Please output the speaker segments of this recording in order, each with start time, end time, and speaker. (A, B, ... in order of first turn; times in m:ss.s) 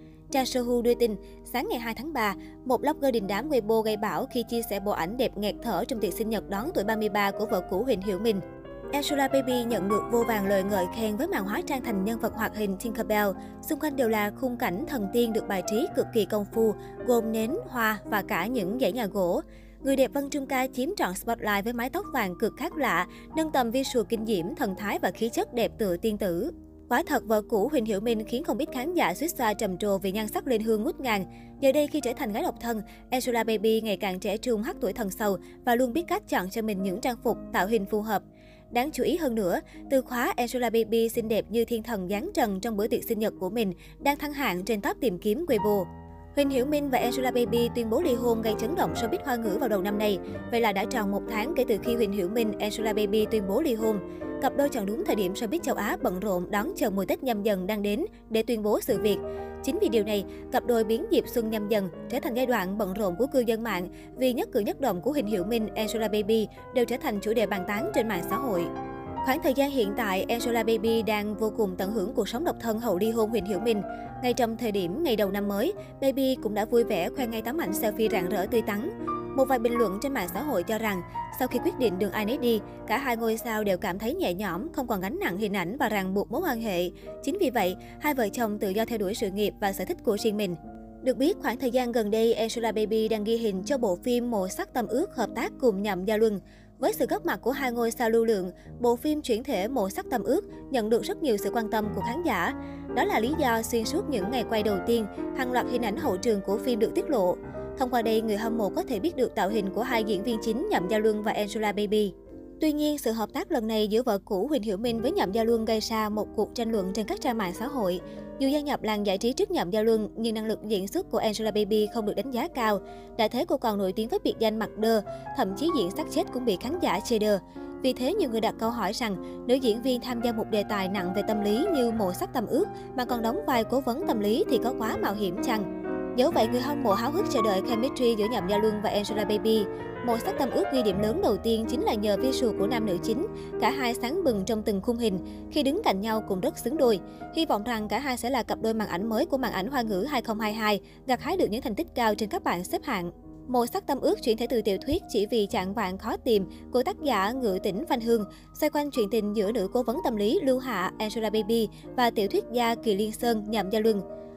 0:00.3-1:08.7 A
1:09.2-2:44.0 A